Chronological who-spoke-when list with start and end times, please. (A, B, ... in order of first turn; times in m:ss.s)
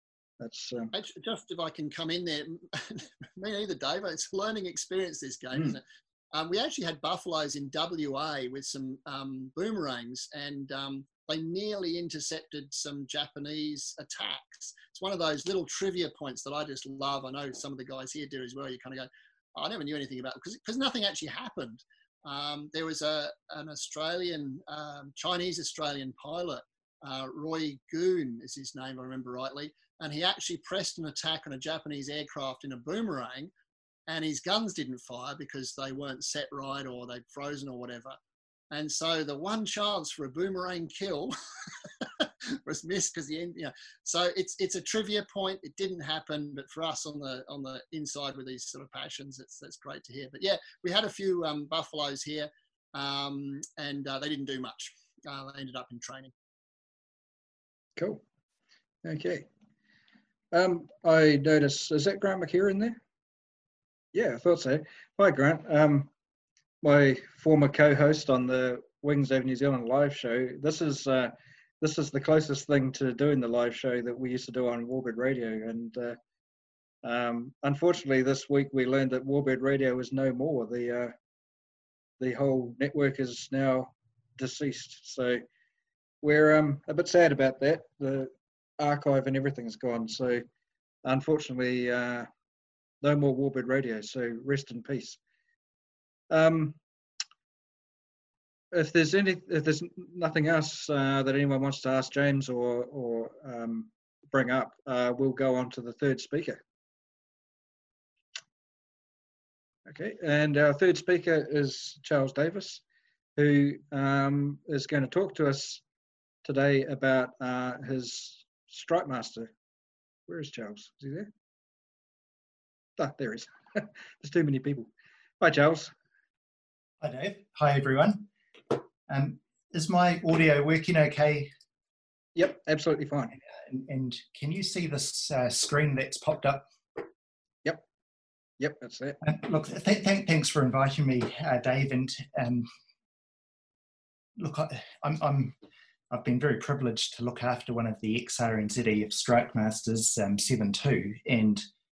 0:00.4-0:00.9 A
0:00.9-0:05.8 B
0:06.3-0:33.5 B
0:34.1-0:38.2 B
0:38.7-0:41.3 B
0:42.6-0:56.3 B
0:59.0-0:59.4 A
1:00.5-1:03.0 A
1:04.1-1:06.1 A
1:06.8-1:16.2 A
1:17.0-1:21.1 A
1:22.2-1:25.4 A
1:26.2-1:30.4 A
1:31.0-1:32.3 A
1:33.0-1:35.2 A
1:36.3-1:36.8 A
1:38.7-1:46.6 A
1:49.8-1:52.8 A
1:53.4-1:55.8 A
1:56.4-1:59.5 A
2:00.3-2:01.3 A
2:03.0-2:04.9 A
2:05.4-2:05.9 A
2:07.0-2:08.3 C
2:09.1-2:11.5 C
2:12.3-2:13.3 A
2:13.6-2:17.0 C
2:18.6-2:19.2 A
2:19.2-2:22.7 C
2:24.4-2:25.6 C
2:26.1-2:31.6 C